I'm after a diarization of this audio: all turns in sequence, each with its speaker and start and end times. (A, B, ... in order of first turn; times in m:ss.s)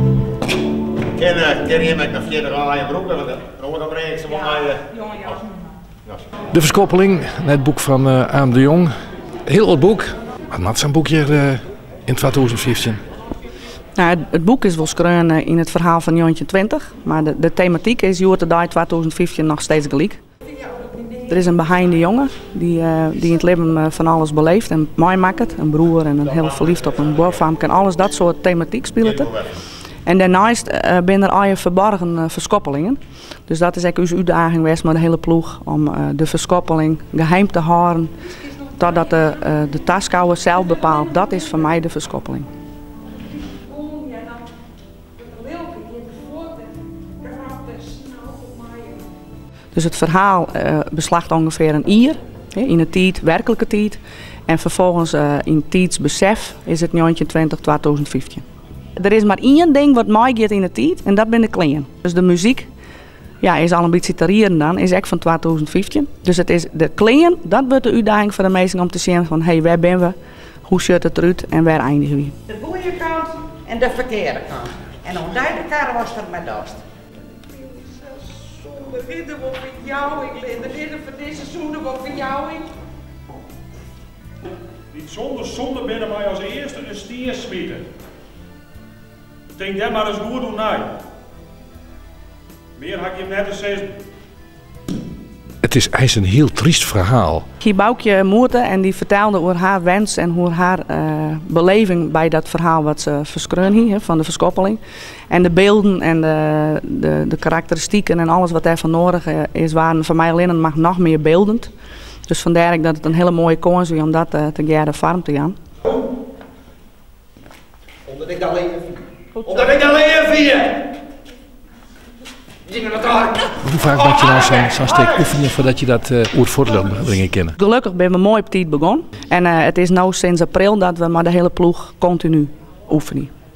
0:01.1-0:05.3 A
0:06.5-0:08.9 B
0:09.4-0:13.0 B
0:14.0-0:20.2 C
0:21.1-0:29.5 C
0:30.0-0:42.5 C
0:49.7-1:02.7 C
1:03.4-1:12.4 C
1:12.5-1:16.8 D
1:18.6-1:19.3 D
1:19.8-1:22.6 D
1:24.9-1:27.9 E
1:29.6-1:31.0 E
1:32.8-1:34.0 E
1:35.6-1:37.4 B
1:37.6-1:51.7 C
1:52.3-1:55.5 C
1:59.6-2:00.6 D
2:02.8-2:03.4 D
2:03.5-2:07.6 B
2:07.6-2:13.3 C